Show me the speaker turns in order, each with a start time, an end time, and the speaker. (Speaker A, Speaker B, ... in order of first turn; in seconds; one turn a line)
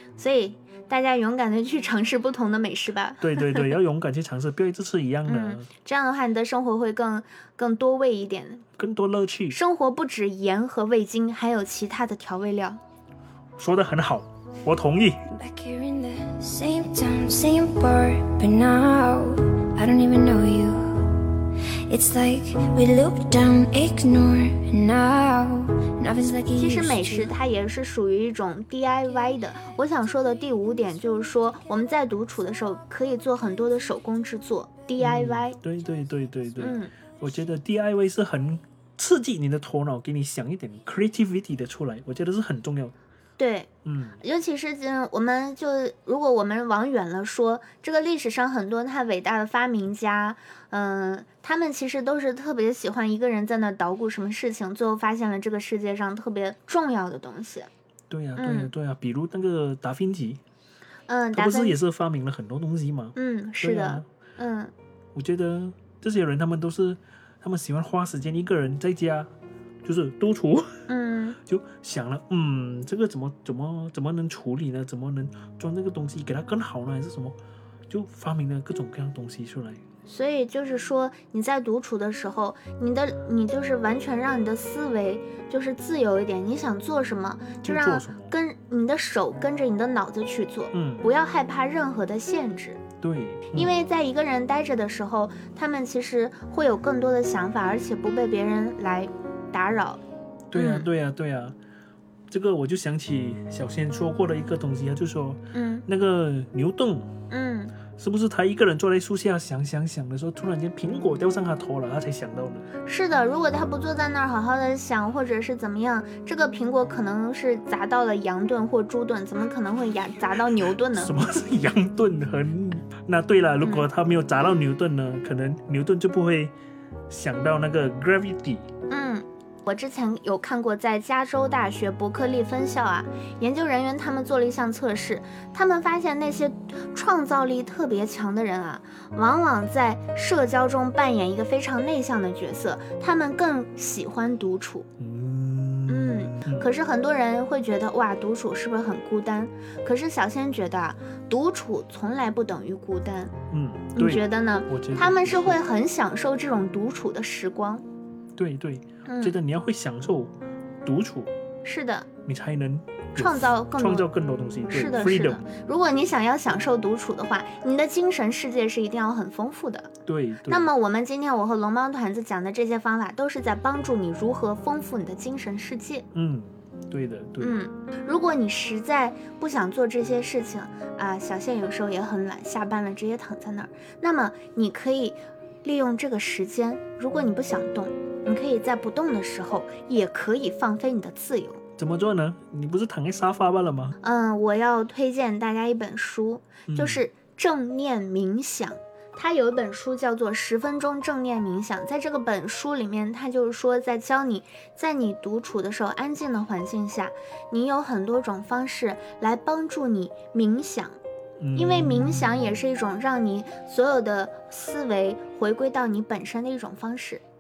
Speaker A: 0.2-3.7
Speaker B: 3.2-5.7
Speaker A: 5.3-8.7
Speaker B: 8.8-9.6
Speaker A: 9.5-12.8
Speaker B: 13.6-15.2
Speaker C: 15.3-27.3
Speaker A: 26.5-35.6
Speaker B: 35.0-42.9
Speaker A: 36.6-36.9
Speaker A: 43.4-57.7
Speaker B: 43.8-44.2
Speaker B: 58.1-60.4
Speaker A: 58.4-58.7
Speaker A: 61.1-61.8
Speaker B: 61.3-64.1
Speaker A: 63.1-64.7
Speaker B: 65.1-69.3
Speaker B: 69.8-70.9
Speaker A: 70.9-71.4
Speaker B: 71.4-77.4
Speaker B: 77.9-79.8
Speaker A: 80.1-92.8
Speaker B: 87.6-88.3
Speaker B: 90.7-91.1
Speaker B: 93.0-93.7
Speaker A: 93.5-100.0
Speaker B: 100.5-101.5
Speaker A: 100.5-100.9
Speaker B: 102.3-107.2
Speaker A: 105.5-105.8
Speaker A: 107.3-107.8
Speaker B: 108.0-112.7
Speaker A: 112.8-121.1
Speaker B: 120.9-126.5
Speaker B: 127.1-128.7
Speaker A: 128.9-144.9
Speaker B: 145.0-146.7
Speaker A: 145.9-153.3
Speaker B: 153.5-155.6
Speaker A: 153.9-157.8
Speaker B: 158.3-160.3
Speaker A: 159.1-159.3
Speaker B: 160.8-161.3
Speaker A: 161.6-162.1
Speaker B: 162.2-165.4
Speaker A: 163.2-164.1
Speaker A: 164.7-169.9
Speaker B: 170.1-170.7
Speaker A: 170.5-176.1
Speaker B: 176.1-177.6
Speaker A: 177.4-191.6
Speaker B: 191.8-193.9
Speaker A: 194.0-211.0
Speaker B: 196.7-197.0
Speaker B: 211.4-212.3
Speaker A: 211.5-217.2